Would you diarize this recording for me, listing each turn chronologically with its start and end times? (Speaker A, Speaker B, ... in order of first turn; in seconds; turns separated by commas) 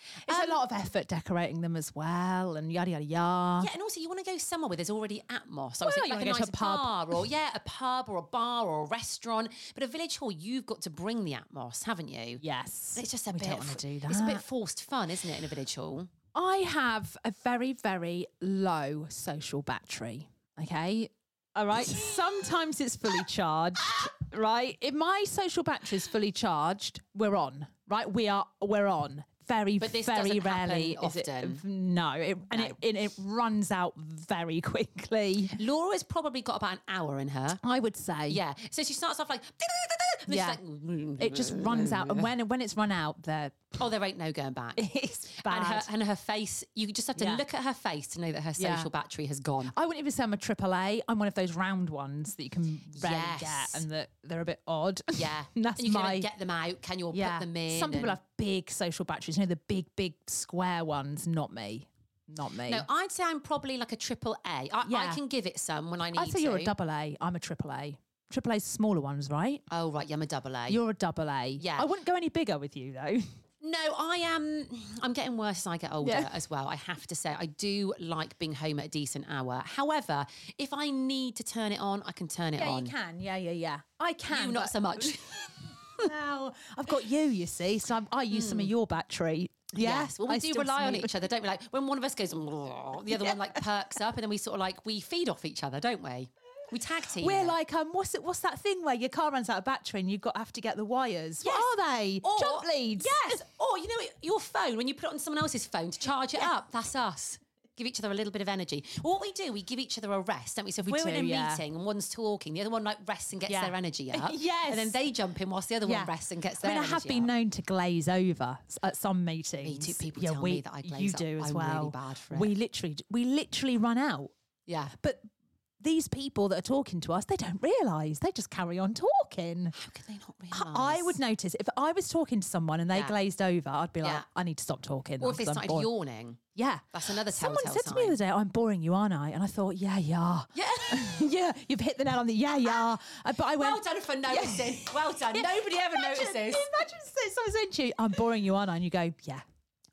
Speaker A: 0.2-3.7, Speaker B: 0.3-0.6, Speaker B: 3.6-12.4, Speaker A: 5.8-6.9, Speaker A: 12.4-14.4, Speaker B: 12.9-16.1, Speaker A: 16.3-35.6, Speaker B: 29.8-31.6, Speaker B: 35.5-37.6, Speaker A: 37.6-38.4, Speaker B: 38.3-42.3, Speaker A: 40.3-40.6, Speaker A: 41.2-43.7, Speaker B: 43.8-49.7, Speaker A: 44.8-45.9, Speaker A: 47.1-47.4, Speaker A: 48.6-48.9, Speaker A: 49.7-56.3, Speaker B: 52.9-53.8, Speaker B: 55.1-58.2, Speaker A: 57.1-62.9, Speaker B: 62.7-66.7, Speaker A: 64.8-65.2, Speaker A: 66.2-69.6, Speaker B: 69.7-70.8, Speaker A: 70.7-73.3, Speaker B: 71.6-71.9, Speaker B: 73.6-82.9, Speaker A: 76.0-76.3, Speaker A: 82.6-85.1, Speaker B: 84.3-86.1, Speaker A: 86.0-91.1, Speaker B: 88.3-88.7, Speaker B: 89.8-97.5, Speaker A: 93.1-93.5, Speaker A: 97.2-103.4, Speaker B: 101.4-117.3, Speaker A: 110.8-111.6, Speaker A: 113.5-115.0, Speaker A: 115.8-116.1, Speaker A: 116.6-124.3, Speaker B: 119.6-122.5, Speaker B: 124.7-124.9, Speaker A: 125.0-125.2, Speaker A: 125.8-129.7, Speaker B: 129.7-131.2, Speaker A: 130.5-135.9, Speaker B: 135.2-136.4, Speaker A: 136.6-149.4, Speaker B: 136.9-138.2, Speaker B: 140.5-141.2, Speaker B: 143.6-146.7